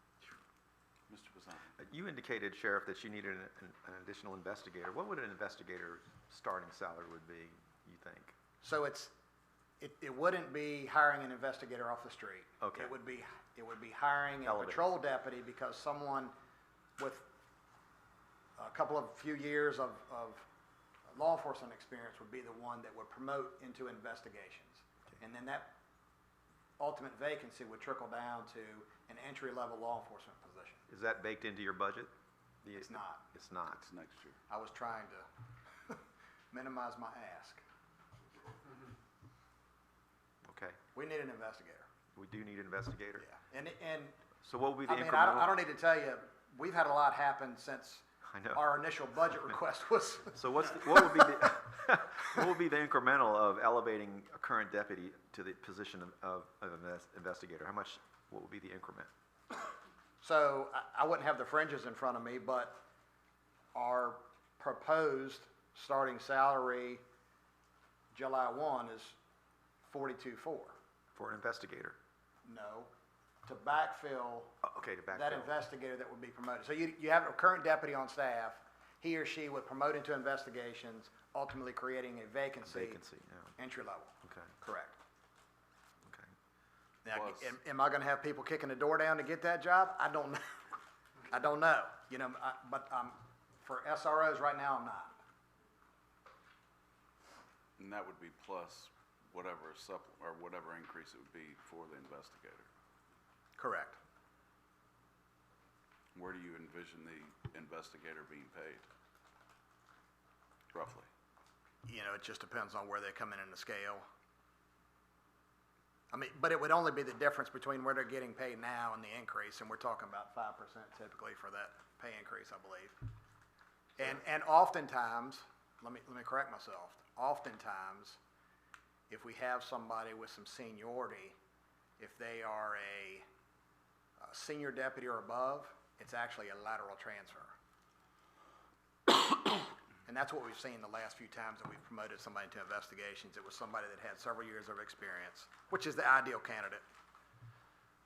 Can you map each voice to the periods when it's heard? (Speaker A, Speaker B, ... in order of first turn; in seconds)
Speaker A: 1.1-1.7, 33.7-34.4, 87.1-87.6, 97.8-102.7, 106.1-108.9, 110.7-111.1
Speaker B: 1.8-8.3, 12.6-12.9, 14.4-14.9, 30.9-32.1, 32.6-33.8, 40.4-40.8, 42.1-43.2, 44.4-45.6, 48.2-48.7, 50.3-59.1, 71.1-72.0, 74.6-75.5, 82.6-83.5, 84.2-84.5, 86.1-86.3
Speaker C: 8.6-9.1, 9.8-16.3, 17.0-17.2, 18.6-20.5, 21.1-25.7, 26.8-30.8, 32.8-33.3, 34.5-35.2, 36.5-37.6, 40.9-41.9, 43.2-44.1, 44.8-51.4, 60.2-62.8, 63.7-67.0, 68.1-69.2, 69.9-70.8, 72.4-72.9, 73.4-74.5, 75.1-83.0, 83.6-85.0, 87.0-90.8, 91.3-95.2, 103.6-104.0, 111.8-114.0, 116.1-123.0, 124.0-128.2, 129.1-131.3, 132.0-133.2, 134.2-137.5, 140.1-146.8